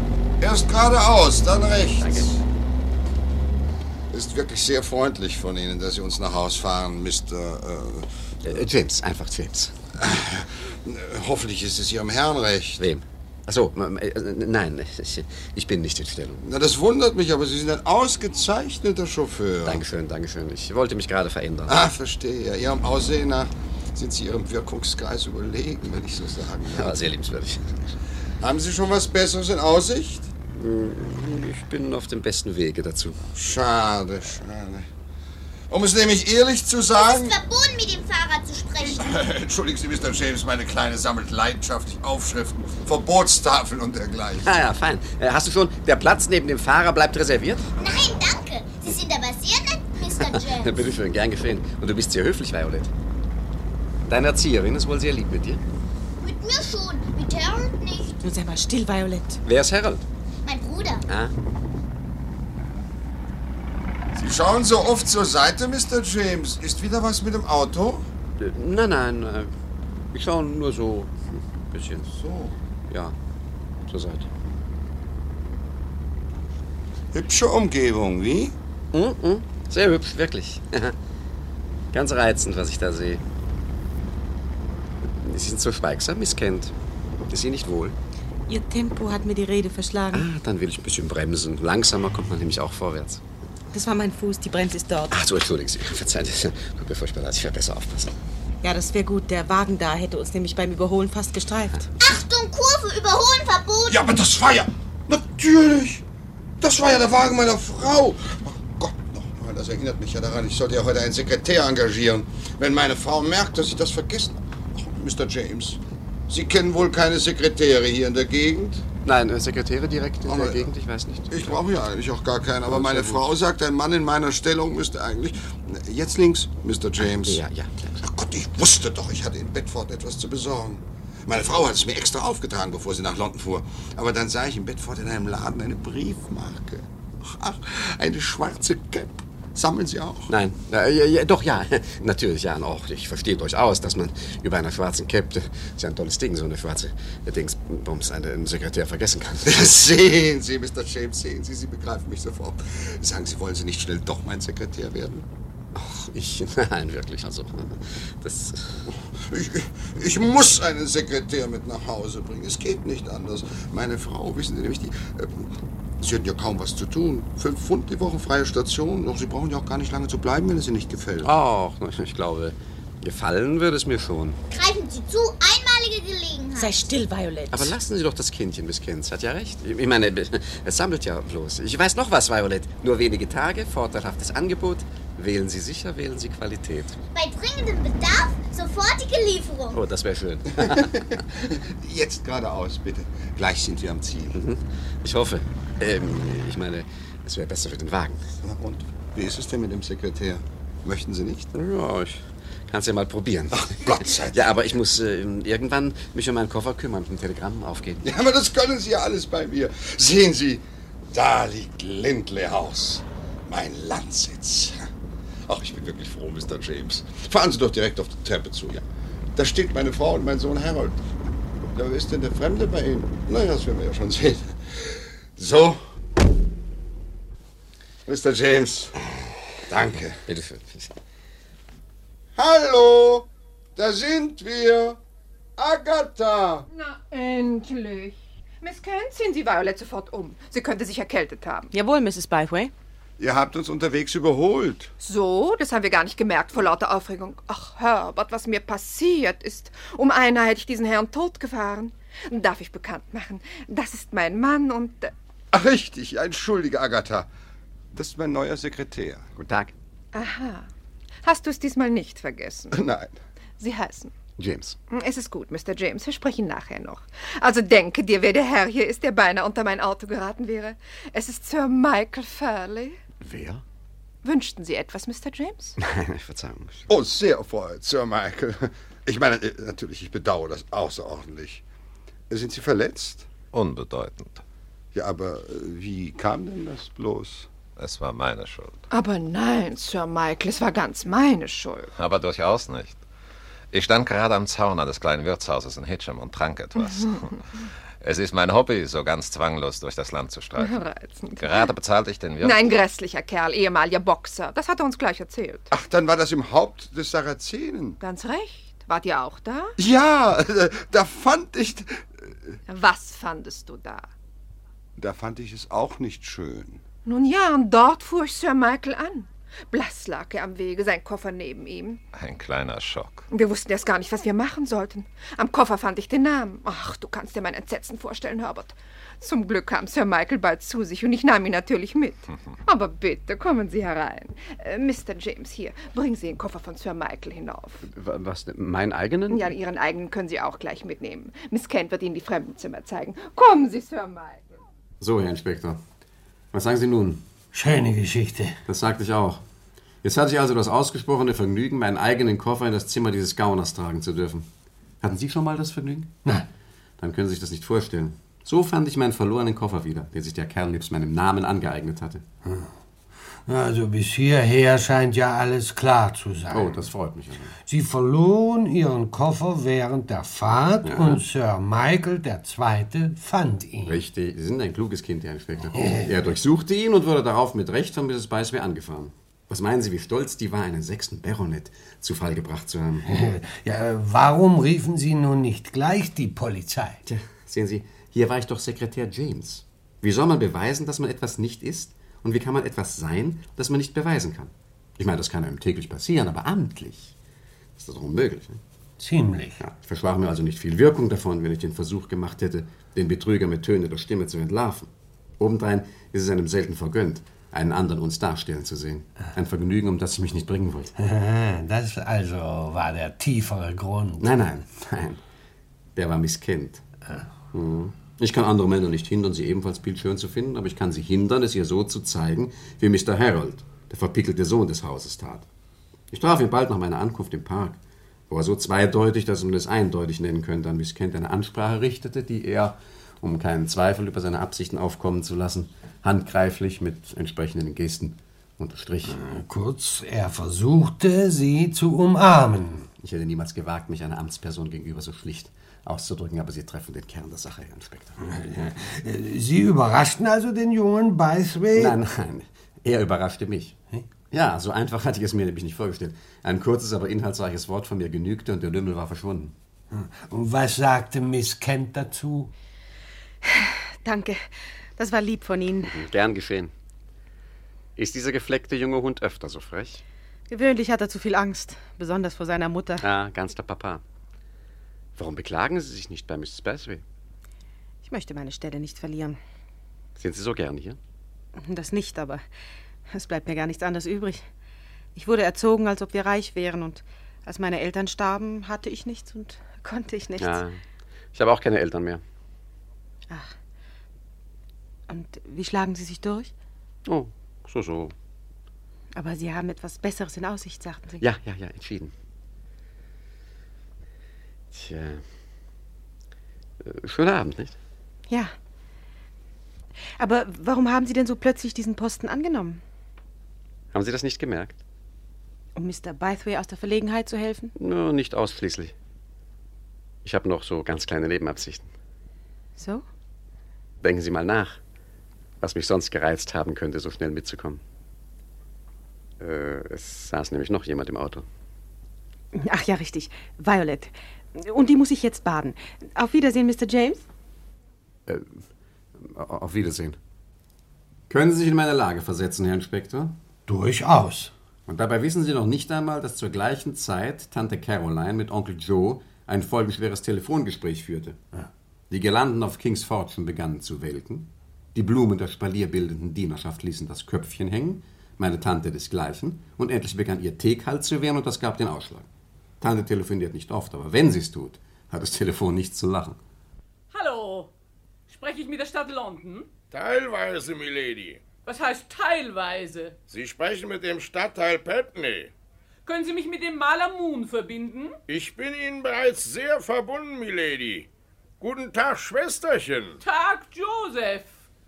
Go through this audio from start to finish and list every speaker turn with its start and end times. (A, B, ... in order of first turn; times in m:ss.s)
0:00.4-0:02.4 A
0:02.0-0:02.4 B
0:04.1-0:08.1 A
0:08.4-0:09.8 B
0:10.0-0:12.8 A
0:12.8-0:16.4 B
0:16.4-0:19.8 A
0:19.6-0:21.8 B
0:21.7-0:27.0 A
0:26.7-0:27.8 B
0:28.4-0:30.3 A
0:30.5-0:33.3 B
0:33.3-0:34.9 A
0:35.7-0:37.4 A
0:37.0-0:39.1 C
0:38.8-0:44.5 A
0:44.4-0:47.7 B
0:47.8-0:50.8 C
0:50.2-0:52.9 B
0:54.1-0:55.6 B
0:56.2-0:58.2 C
0:58.2-0:59.4 D
0:59.4-1:00.0 B
1:00.4-1:01.0 C
1:01.1-1:01.3 B
1:04.2-1:08.0 A
1:08.4-1:09.5 B
1:10.1-1:11.2 B
1:11.7-1:12.1 B
1:12.0-1:12.5 A
1:12.9-1:13.2 B
1:13.8-1:14.3 B
1:17.1-1:18.5 A
1:18.9-1:21.0 B
1:21.9-1:23.2 B
1:25.0-1:26.7 B
1:27.3-1:28.0 B
1:28.5-1:30.3 D
1:30.1-1:33.2 B
1:33.7-1:35.1 D
1:35.1-1:38.2 B
1:38.6-1:41.9 D
1:42.0-1:44.0 C
1:43.9-1:46.0 A
1:46.6-1:58.8 A
1:59.0-2:01.6 B
2:00.2-2:00.7 A
2:01.3-2:07.4 A
2:02.7-2:03.3 B
2:07.0-2:08.0 B
2:08.0-2:20.3 A
2:20.3-2:29.7 B
2:29.4-2:35.2 A
2:35.7-2:38.9 B
2:39.2-2:51.3 A
2:51.2-2:54.4 B
2:54.5-2:56.8 C
2:56.6-2:57.7 D
2:57.5-3:07.0 B
3:07.1-3:09.8 C
3:09.7-3:11.0 B
3:10.6-3:14.4 A
3:14.3-3:18.2 B
3:18.4-3:21.5 A
3:21.5-3:28.0 B
3:23.5-3:24.7 A
3:28.0-3:34.9 A
3:35.5-3:38.8 A
3:39.3-3:41.0 A
3:41.7-3:45.8 A
3:48.0-3:48.9 A
3:49.7-3:50.2 A
3:50.2-3:50.9 B
3:52.4-3:55.0 A
3:55.6-3:56.6 A
3:56.7-4:01.7 E
4:01.7-4:02.7 D
4:03.2-4:04.9 A
4:05.0-4:15.1 E
4:15.5-4:17.3 A
4:17.9-4:19.3 A
4:19.4-4:19.7 B
4:20.1-4:20.7 E
4:21.2-4:22.8 E
4:22.7-4:23.1 A
4:23.6-4:24.1 E
4:24.4-4:24.8 B
4:24.9-4:33.0 E
4:33.2-4:33.6 B
4:34.2-4:35.8 E
4:35.8-4:36.9 B
4:36.9-4:41.6 A
4:42.3-4:43.3 A
4:43.5-4:44.4 F
4:44.9-4:47.5 A
4:47.8-4:48.8 F
4:48.9-4:51.9 E
4:52.0-4:53.0 F
4:53.7-4:57.3 F
4:58.0-5:00.8 F
5:00.6-5:01.6 E
5:01.4-5:02.6 F
5:02.4-5:05.7 E
5:05.7-5:08.0 A
5:08.0-5:09.7 E
5:09.8-5:12.3 A
5:12.7-5:14.1 E
5:15.0-5:16.8 A
5:17.0-5:22.0 E
5:22.1-5:23.2 F
5:23.3-5:37.8 E
5:37.8-5:39.6 B
5:39.3-5:44.5 E
5:45.0-5:45.8 B
5:46.5-5:47.2 B
5:47.5-5:48.6 G
5:48.7-5:49.4 B
5:50.0-5:54.5 B
5:55.0-5:56.2 B
5:57.0-6:02.2 B
6:03.4-6:06.8 G
6:06.5-6:07.5 B
6:07.6-6:14.0 G
6:10.8-6:11.2 B
6:13.8-6:23.1 B
6:15.8-6:16.0 G
6:23.1-6:27.0 G
6:27.0-6:37.1 B
6:37.8-6:38.6 B
6:39.0-6:39.6 G
6:39.6-6:50.9 B
6:51.0-6:54.3 G
6:54.2-6:55.2 B
6:56.0-6:56.8 B
6:57.5-7:05.4 B
7:06.1-7:07.8 B
7:08.3-7:19.2 B
7:19.1-7:22.8 G
7:23.0-7:28.2 B
7:28.2-7:31.9 G
7:31.7-7:33.8 B
7:34.3-7:39.5 B
7:39.9-7:42.5 G
7:44.0-7:44.4 D
7:45.0-7:46.0 D
7:45.9-7:46.7 B
7:48.0-7:50.0 B
7:50.5-7:53.1 D
7:53.0-7:54.0 B
7:55.2-7:57.0 B
7:58.0-7:59.4 D
8:00.2-8:01.0 B
8:01.6-8:02.4 D
8:03.1-8:04.4 D
8:05.1-8:10.6 D
8:10.4-8:10.8 B
8:11.3-8:12.2 B
8:15.1-8:16.5 D
8:17.0-8:18.1 B
8:19.2-8:21.2 D
8:21.2-8:22.1 B
8:24.7-8:25.2 B
8:26.8-8:27.8 B
8:30.2-8:32.8 D
8:33.9-8:34.8 B
8:35.8-8:37.7 D
8:37.7-8:38.9 B
8:40.2-8:41.9 B
8:42.8-8:43.0 D
8:44.0-8:44.8 B
8:45.6-8:47.8 B
8:49.4-8:51.4 B
8:52.5-8:57.2 D
8:58.3-8:58.6 B
8:59.2-9:00.2 B
9:01.3-9:03.4 B
9:03.7-9:04.5 G
9:04.9-9:11.4 B
9:12.1-9:22.3 B
9:22.8-9:26.4 B
9:27.1-9:27.7 H
9:28.3-9:29.7 H
9:29.9-9:31.4 I
9:31.6-9:33.2 H
9:33.3-9:35.5 I
9:36.0-9:38.2 H
9:38.3-9:41.1 I
9:41.6-9:43.2 I
9:43.2-9:44.6 H